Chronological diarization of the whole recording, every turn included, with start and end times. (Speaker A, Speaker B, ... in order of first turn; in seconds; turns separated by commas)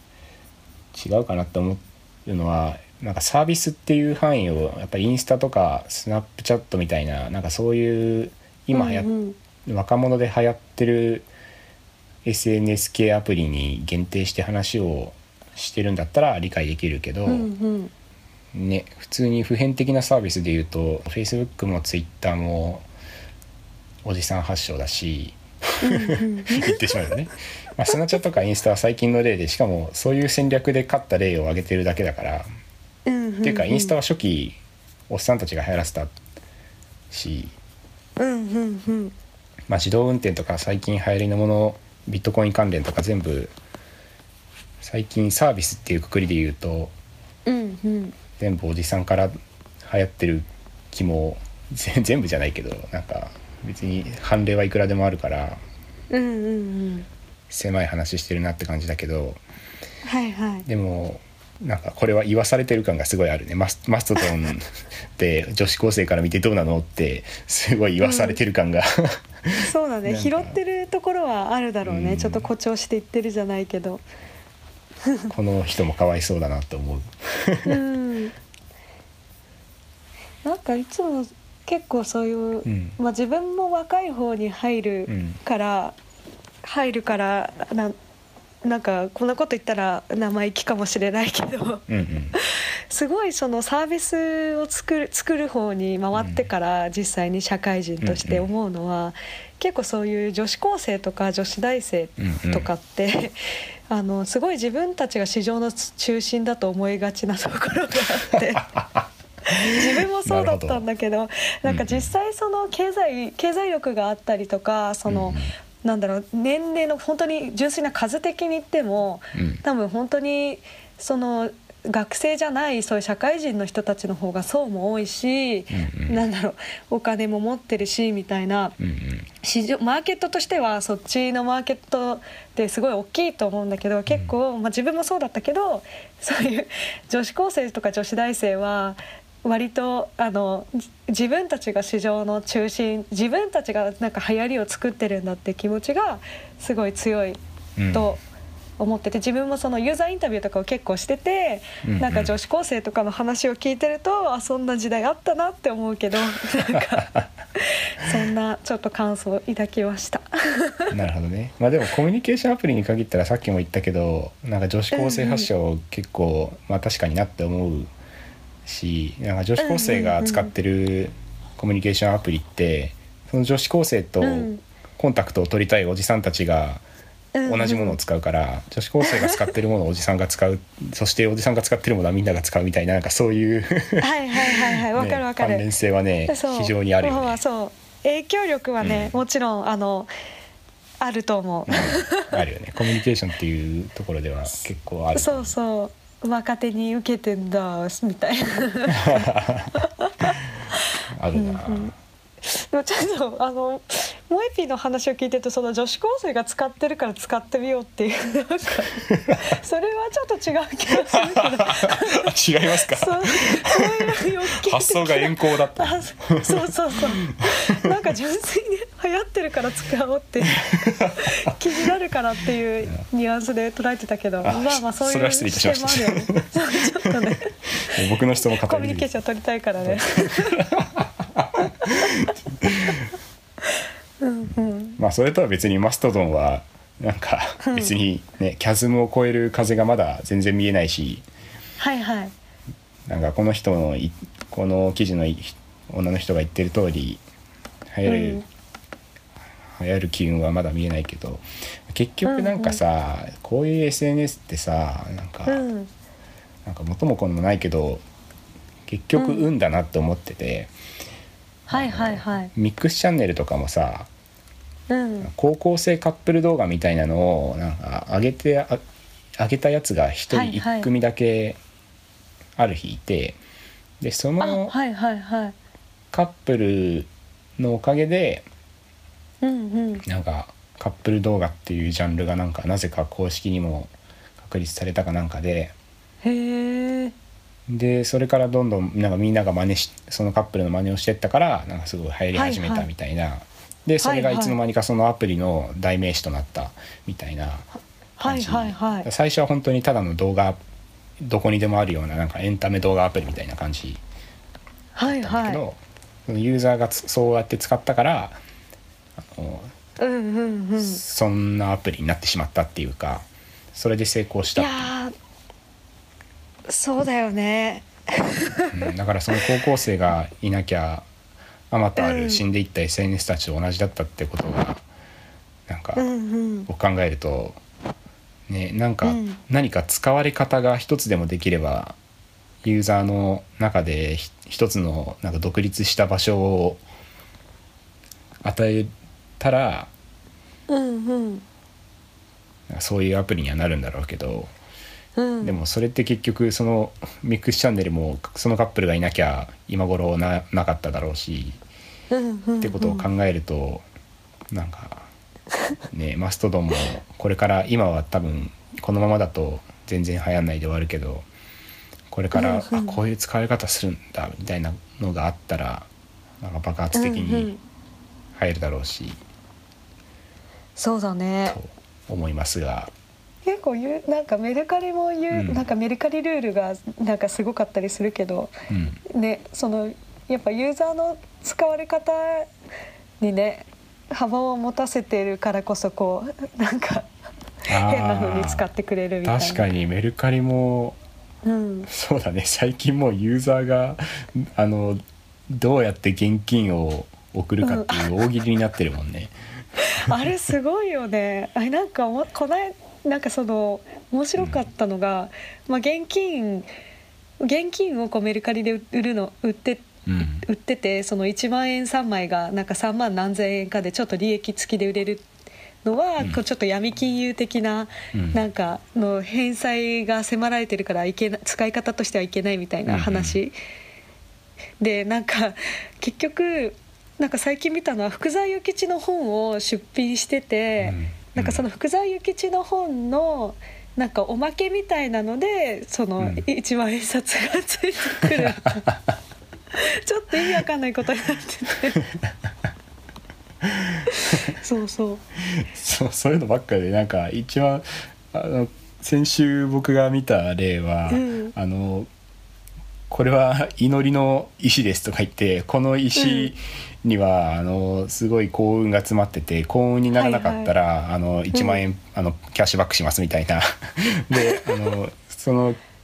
Speaker A: 0.9-9.1, Speaker B: 8.7-9.4, Speaker A: 9.6-11.3, Speaker A: 12.2-17.5, Speaker B: 17.2-17.9, Speaker A: 18.5-22.9, Speaker A: 24.0-32.5, Speaker B: 25.8-26.9, Speaker B: 33.0-34.0, Speaker A: 33.4-36.1, Speaker A: 37.1-37.5, Speaker B: 38.2-39.1, Speaker A: 39.7-43.5, Speaker A: 44.8-46.9, Speaker B: 47.5-48.1, Speaker A: 48.4-55.6, Speaker B: 56.1-57.1, Speaker A: 57.5-59.4, Speaker B: 60.0-60.7, Speaker A: 60.6-70.6, Speaker B: 68.0-68.4, Speaker B: 69.6-74.0, Speaker A: 71.8-72.5, Speaker B: 75.0-75.3, Speaker A: 75.3-77.8, Speaker B: 77.6-78.3, Speaker B: 80.4-86.0, Speaker A: 82.6-83.0, Speaker A: 85.1-85.4, Speaker B: 86.6-87.9, Speaker B: 88.6-103.4, Speaker A: 91.9-92.4, Speaker A: 96.2-96.4, Speaker A: 98.0-98.5, Speaker A: 102.2-102.7, Speaker B: 103.9-108.6, Speaker A: 108.3-110.8, Speaker B: 109.5-128.8, Speaker A: 111.6-112.1, Speaker A: 115.1-115.5, Speaker A: 119.3-119.6, Speaker A: 125.7-126.2, Speaker A: 128.8-129.3, Speaker B: 129.4-147.4, Speaker A: 147.8-148.2, Speaker B: 147.9-148.2, Speaker B: 148.8-160.9, Speaker A: 151.8-152.3, Speaker A: 156.5-157.3, Speaker A: 160.9-167.9, Speaker B: 164.9-165.5, Speaker A: 168.6-176.8, Speaker B: 169.6-170.5, Speaker B: 174.2-174.6, Speaker B: 177.3-178.0, Speaker A: 177.4-187.4, Speaker B: 179.0-179.4, Speaker B: 184.0-185.7, Speaker B: 186.3-190.1, Speaker A: 188.8-189.1, Speaker B: 191.0-192.2, Speaker A: 191.7-195.5, Speaker B: 195.1-200.8, Speaker A: 198.9-199.8, Speaker A: 201.1-201.9, Speaker B: 201.3-212.3, Speaker A: 209.1-209.4, Speaker A: 211.1-217.9, Speaker B: 212.9-230.6, Speaker A: 220.5-221.6, Speaker A: 224.4-227.2, Speaker A: 227.8-229.1, Speaker A: 229.8-233.1, Speaker B: 234.2-235.0, Speaker A: 235.0-241.2, Speaker B: 237.6-237.9, Speaker B: 241.8-242.3, Speaker A: 243.1-247.2, Speaker A: 247.9-248.4, Speaker B: 248.1-248.4, Speaker A: 249.7-255.6, Speaker B: 252.2-252.8, Speaker B: 255.5-255.9, Speaker A: 256.6-258.0, Speaker A: 258.9-260.7, Speaker B: 259.1-259.5, Speaker B: 261.7-262.5, Speaker A: 261.7-264.1, Speaker B: 264.9-265.3, Speaker A: 265.2-268.8, Speaker A: 269.4-271.6, Speaker B: 270.3-270.9, Speaker A: 272.6-273.4, Speaker A: 274.0-274.8, Speaker B: 274.4-275.6, Speaker A: 276.1-278.4, Speaker B: 279.4-280.0, Speaker A: 280.0-285.7, Speaker B: 286.2-287.1, Speaker A: 287.7-297.7, Speaker B: 292.3-292.9, Speaker B: 294.0-294.6, Speaker B: 298.2-299.1, Speaker A: 298.2-300.6, Speaker A: 301.2-304.0, Speaker B: 304.9-305.6, Speaker A: 305.0-308.4, Speaker A: 309.2-309.7, Speaker B: 310.0-311.0, Speaker A: 310.8-314.9, Speaker B: 314.5-315.1, Speaker B: 316.7-318.8, Speaker A: 318.7-321.1, Speaker A: 321.7-324.8, Speaker B: 322.0-322.4, Speaker A: 325.7-326.1, Speaker B: 325.9-326.7, Speaker A: 326.7-327.6, Speaker A: 328.5-331.9, Speaker B: 329.0-329.4, Speaker A: 332.6-336.8, Speaker A: 338.4-339.9, Speaker B: 340.7-341.4, Speaker A: 342.7-344.5, Speaker B: 345.1-345.5, Speaker A: 345.4-351.6, Speaker B: 352.1-353.1, Speaker A: 352.6-353.8, Speaker A: 354.5-355.1, Speaker A: 355.9-361.3, Speaker A: 362.1-365.9, Speaker B: 362.3-363.0, Speaker A: 366.4-367.5, Speaker B: 366.9-367.6, Speaker A: 368.3-369.2, Speaker B: 370.8-371.6, Speaker A: 371.4-372.9, Speaker B: 373.4-378.5, Speaker A: 375.3-375.6, Speaker A: 378.7-379.0, Speaker B: 379.1-382.5, Speaker B: 383.2-387.1, Speaker A: 387.7-388.7, Speaker B: 387.8-389.6, Speaker A: 389.2-391.0, Speaker B: 391.4-391.9, Speaker A: 391.9-399.3, Speaker B: 397.6-398.1, Speaker B: 399.9-406.7, Speaker A: 404.4-404.6, Speaker B: 407.4-415.3, Speaker A: 410.1-410.4, Speaker B: 415.8-423.5, Speaker A: 418.1-418.4, Speaker A: 422.9-423.4, Speaker B: 424.8-438.8, Speaker A: 430.8-431.6, Speaker A: 436.2-436.4, Speaker A: 438.2-439.1, Speaker B: 439.7-442.0, Speaker A: 443.6-444.6, Speaker B: 444.1-445.2, Speaker A: 445.5-452.1, Speaker B: 451.1-451.5, Speaker A: 453.1-465.8, Speaker B: 456.1-456.5, Speaker B: 460.1-460.7, Speaker B: 461.5-461.8, Speaker B: 464.3-464.7